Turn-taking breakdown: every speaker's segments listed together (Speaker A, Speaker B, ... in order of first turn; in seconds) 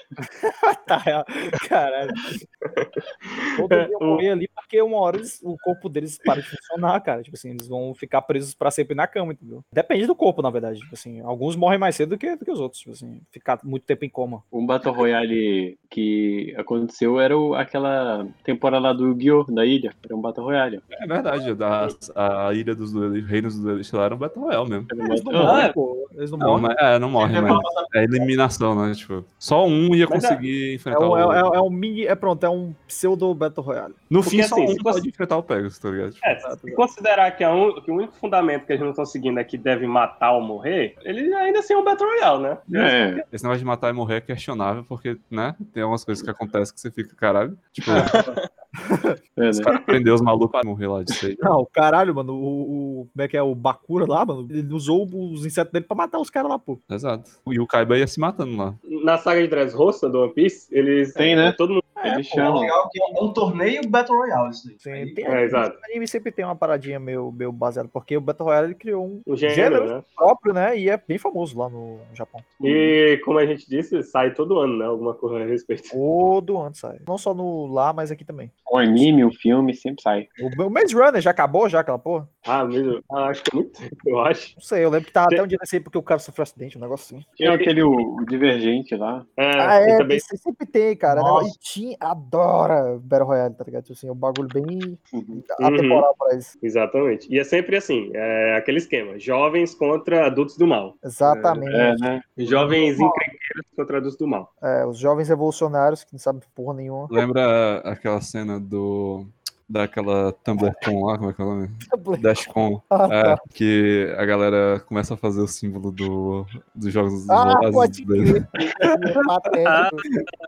Speaker A: 0.4-2.4, 3.6-14.4, 25.0-26.7, 30.9-34.0, 36.4-36.8, 47.9-48.2, 48.8-49.2, 51.4-56.8, 62.0-62.6, 64.8-72.5, 75.9-78.5, 80.4-82.3, 84.6-87.3, 89.6-96.5, 101.0-102.1, 102.7-103.2, 104.6-107.2, 111.9-112.4, 112.9-113.4, 117.3-120.0
Speaker B: 2.6-4.2, 25.4-25.8, 30.1-30.4, 34.2-35.0, 36.2-42.9, 48.0-48.4, 49.7-50.0, 58.9-61.9, 65.2-65.8, 69.3-70.0, 72.6-76.0, 82.5-84.5, 87.4-87.7, 89.4-90.2, 95.6-96.1, 96.6-101.6, 102.4-104.5, 119.7-120.0
Speaker C: 14.5-20.9, 24.9-25.7, 42.7-43.2, 49.4-49.7, 61.2-62.8, 72.6-72.9, 78.7-80.3, 87.4-89.3, 95.1-95.4, 101.7-102.3
Speaker D: 20.9-24.9, 26.4-31.5, 34.1-36.3, 43.3-48.2, 49.6-51.5, 56.9-58.8, 107.1-118.9
Speaker E: 27.2-28.3, 62.4-65.4, 91.1-91.5